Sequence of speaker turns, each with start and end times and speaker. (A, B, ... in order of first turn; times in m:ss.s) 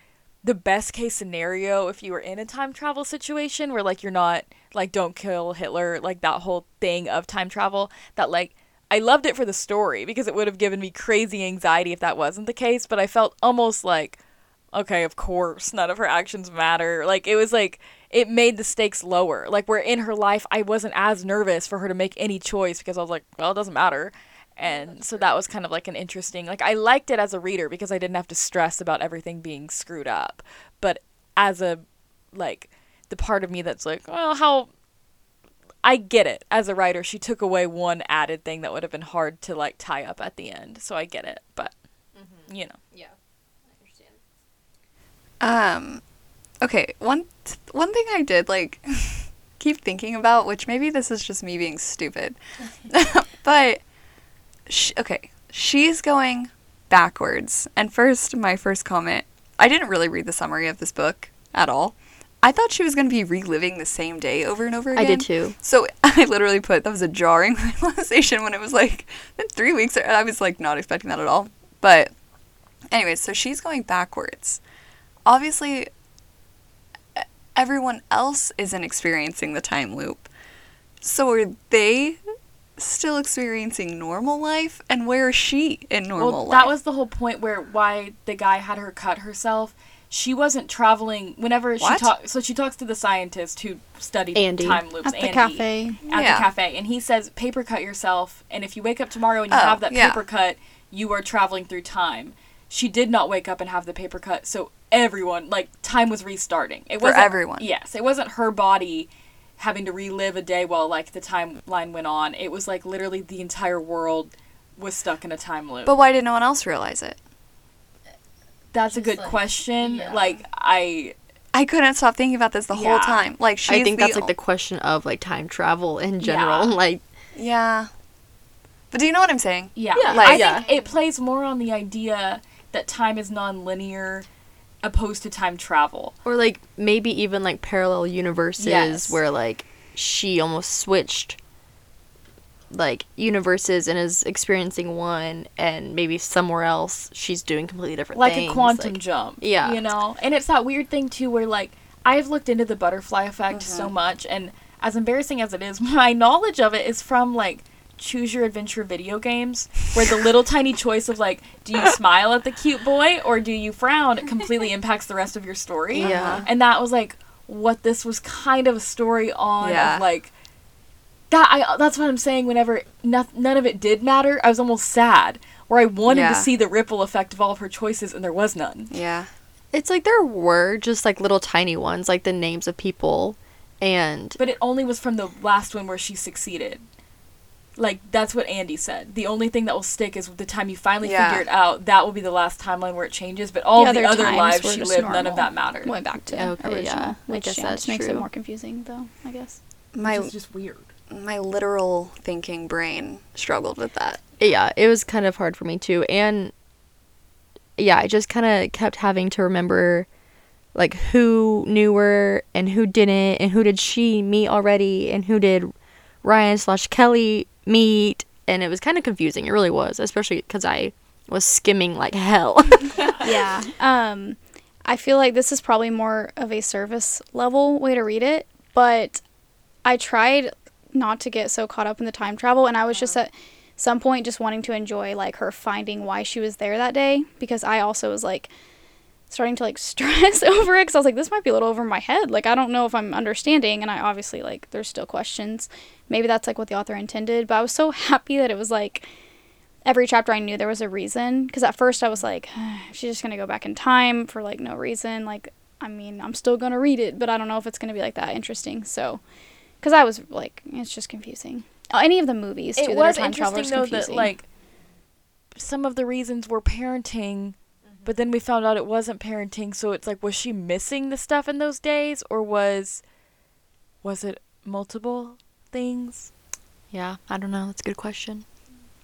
0:00.4-0:14.2 A
0:14.7-0:31.8 A
0:32.3-0:34.7 A
0:35.8-0:41.7 A
0:42.2-0:43.1 B
0:42.5-0:42.8 A
0:43.7-0:44.2 B
0:45.4-0:46.0 C
0:46.6-0:53.8 C
0:54.7-1:12.1 C
1:04.9-1:05.6 B
1:12.9-1:14.6 C
1:15.3-1:15.9 C
1:17.2-1:20.3 C
1:21.0-1:22.2 C
1:22.8-1:26.7 C
1:26.2-1:56.0 A
1:31.8-1:32.1 C
1:34.4-1:34.8 B
1:35.0-1:36.0 D
1:36.1-1:36.5 C
1:39.5-1:40.2 C
1:47.0-1:47.7 C
1:55.9-1:57.2 C
1:58.7-2:01.2 A
1:59.0-2:00.3 B
2:01.5-2:04.3 C
2:02.7-2:03.3 A
2:03.7-2:07.0 B
2:06.2-2:06.8 A
2:07.4-2:07.9 C
2:08.9-2:10.5 C
2:09.8-2:14.3 A
2:10.0-2:10.7 B
2:10.3-2:10.9 D
2:14.8-2:16.2 A
2:16.2-2:21.4 B
2:18.6-2:19.2 A
2:22.7-2:29.8 B
2:28.1-2:50.3 A
2:33.5-2:33.9 C
2:45.9-2:46.4 C
2:46.0-2:46.5 B
2:49.6-2:50.1 C
2:51.3-2:58.9 A
2:56.1-2:56.5 C
2:58.9-2:59.3 C
2:59.7-3:04.4 B
3:04.4-3:06.8 A
3:07.8-3:15.9 A
3:11.0-3:11.5 C
3:13.8-3:19.6 D
3:16.3-3:18.2 B
3:19.9-3:20.3 C
3:20.0-3:20.9 A
3:21.1-3:24.2 C
3:24.4-3:26.5 B
3:27.8-3:30.1 B
3:30.8-3:35.7 B
3:36.2-3:43.1 B
3:43.0-3:43.2 A
3:43.2-3:49.2 D
3:49.8-3:58.5 D
3:59.3-4:09.1 D
4:09.8-4:19.2 D
4:19.8-4:24.3 D
4:22.8-4:24.5 A
4:25.6-4:33.0 A
4:34.0-4:36.3 A
4:36.9-4:38.4 B